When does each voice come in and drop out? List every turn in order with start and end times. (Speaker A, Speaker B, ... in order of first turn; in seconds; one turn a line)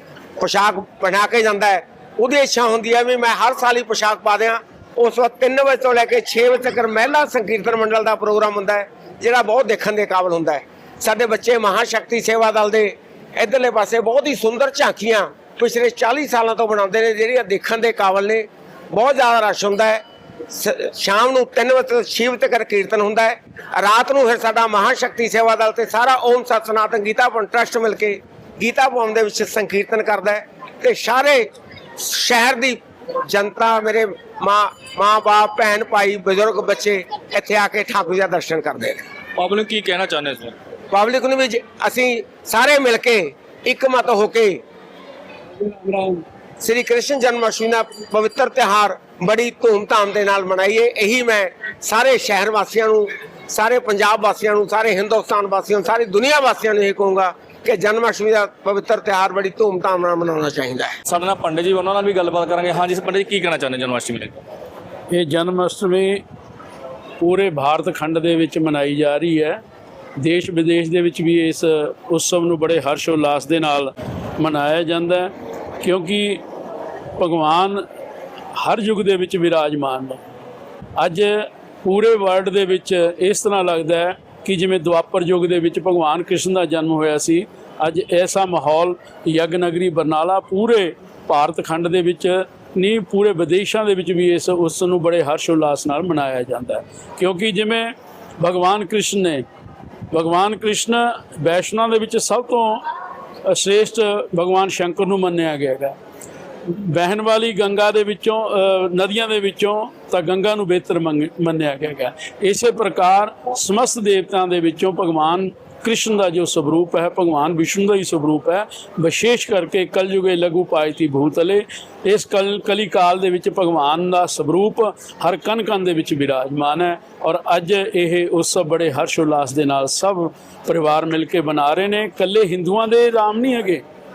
Speaker A: 0.4-31.5
Speaker A: 32.0-39.0
Speaker B: 39.4-40.5
Speaker A: 40.9-44.6
Speaker C: 45.6-46.2
Speaker A: 46.6-60.9
Speaker B: 61.1-64.4
Speaker C: 65.1-66.2
Speaker C: 67.2-69.6
Speaker C: 70.2-76.4
Speaker C: 77.2-77.8
Speaker C: 78.6-80.2
Speaker C: 81.0-99.4
Speaker C: 100.1-102.8
Speaker C: 103.5-106.0
Speaker C: 106.7-133.8